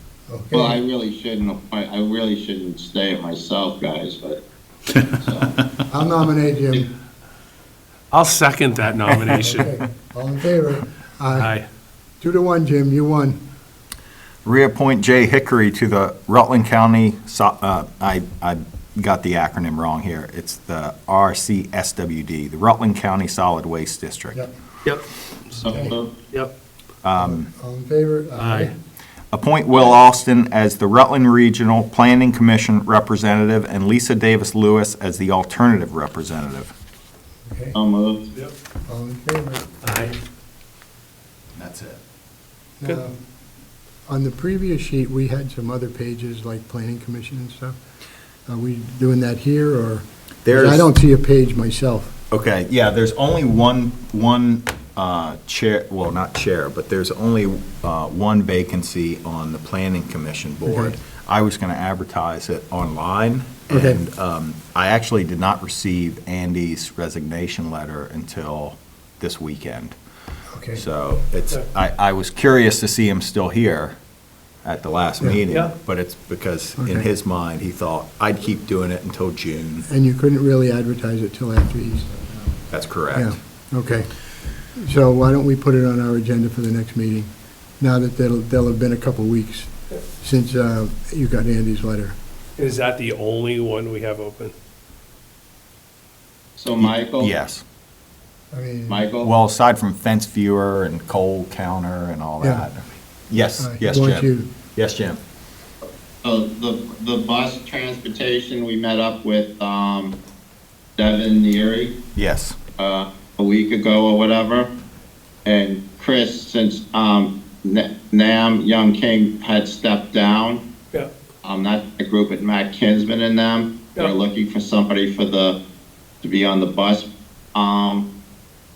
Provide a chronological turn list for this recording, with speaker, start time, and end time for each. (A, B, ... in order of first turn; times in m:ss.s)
0:00.3-0:00.8 A
0:00.5-0:04.4 B
0:05.1-0:05.6 B
0:05.9-0:06.9 A
0:08.1-0:09.7 C
0:09.4-0:11.5 A
0:11.3-0:11.6 C
0:12.2-0:13.4 A
0:14.4-0:24.4 D
0:24.8-0:25.5 C
0:25.6-0:26.1 B
0:25.7-0:25.9 A
0:27.0-0:27.5 D
0:27.2-0:28.7 A
0:28.4-0:28.7 C
0:29.3-0:36.7 D
0:37.5-0:37.8 A
0:37.7-0:38.3 B
0:38.9-0:39.7 A
0:39.8-0:40.2 C
0:41.5-0:42.0 D
0:42.8-0:43.2 A
0:44.1-0:47.8 A
0:48.5-0:52.2 A
0:50.4-0:50.9 D
0:52.3-1:09.9 D
1:00.7-1:01.0 A
1:03.7-1:04.0 A
1:10.5-1:10.8 A
1:10.8-1:14.0 D
1:14.6-1:19.9 D
1:15.5-1:15.7 C
1:16.8-1:17.1 A
1:19.9-1:24.1 A
1:22.7-1:23.4 D
1:24.7-1:32.2 A
1:32.6-1:34.5 C
1:36.6-1:37.3 B
1:36.8-1:37.6 D
1:38.5-1:39.0 A
1:38.9-1:39.3 B
1:39.2-1:45.2 D
1:42.4-1:42.7 A
1:43.6-1:44.5 A
1:46.2-1:50.2 B
1:51.0-1:52.0 B
1:52.2-1:52.6 D
1:52.8-1:54.7 B
1:55.4-2:00.6 B
2:01.4-2:05.6 B
2:06.2-2:08.1 B